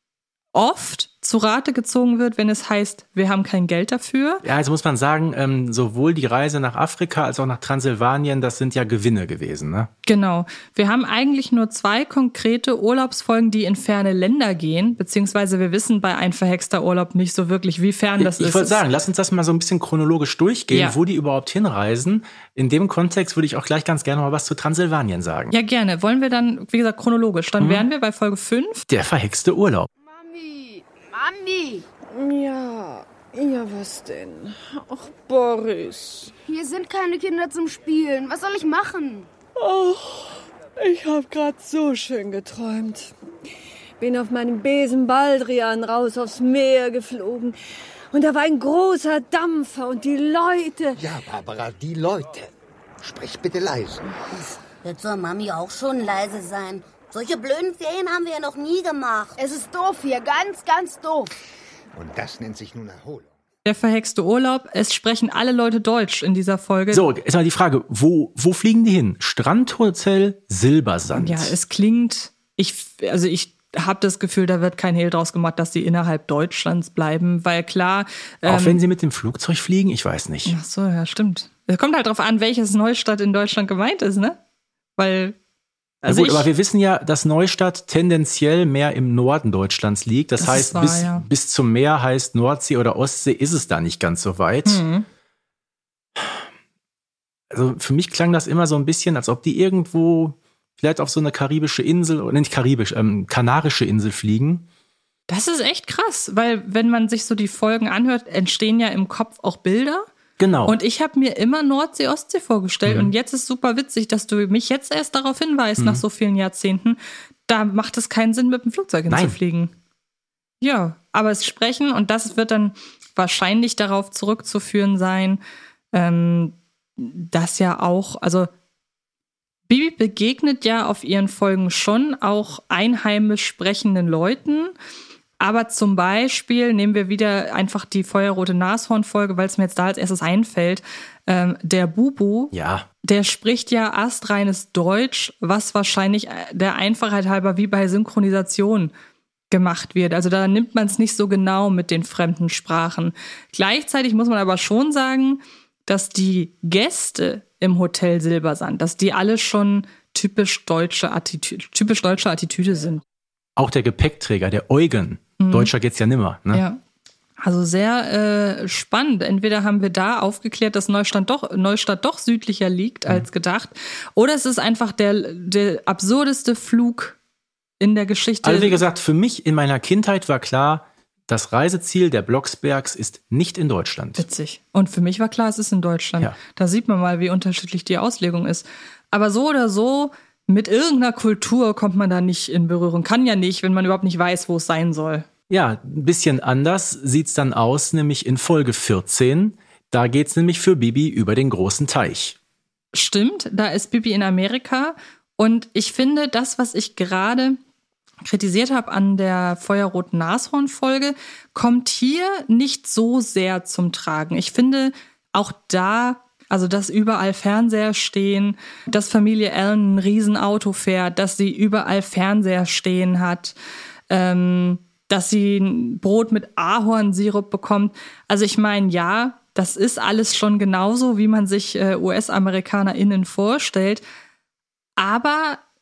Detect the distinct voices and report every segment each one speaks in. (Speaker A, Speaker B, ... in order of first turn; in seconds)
Speaker A: 0.5-4.4, 10.1-18.8, 20.7-21.0, 25.5-28.9, 63.7-67.0, 71.1-78.8, 80.5-84.4, 85.0-85.4, 86.0-86.5, 90.4-91.2, 94.6-95.0, 105.3-110.1, 110.7-119.7, 120.6-125.4, 125.9-128.5, 129.7-134.7, 135.4-142.5, 143.0-148.9, 149.5-163.0, 165.4-165.7, 166.5-166.8, 167.4-177.2, 177.8-178.8, 184.2-195.2, 202.9-207.6, 208.2-223.6, 224.1-234.0, 235.0-235.6
Speaker B: 4.4-9.9, 18.2-25.5, 27.6-27.9, 28.9-29.9, 66.9-71.5, 78.5-80.5, 86.0-94.8, 96.2-96.5, 97.5-104.7, 110.4-110.8, 115.8-116.0, 119.1-119.4, 142.5-142.9, 163.6-166.6, 178.4-184.2, 195.5-202.4
Speaker C: 30.1-31.9, 36.5-39.3, 59.4-61.3
Speaker D: 32.1-36.3, 39.6-43.1, 44.0-47.6, 48.1-51.0
Speaker E: 51.0-52.5, 53.0-54.1, 62.0-63.3
Speaker F: 54.3-59.3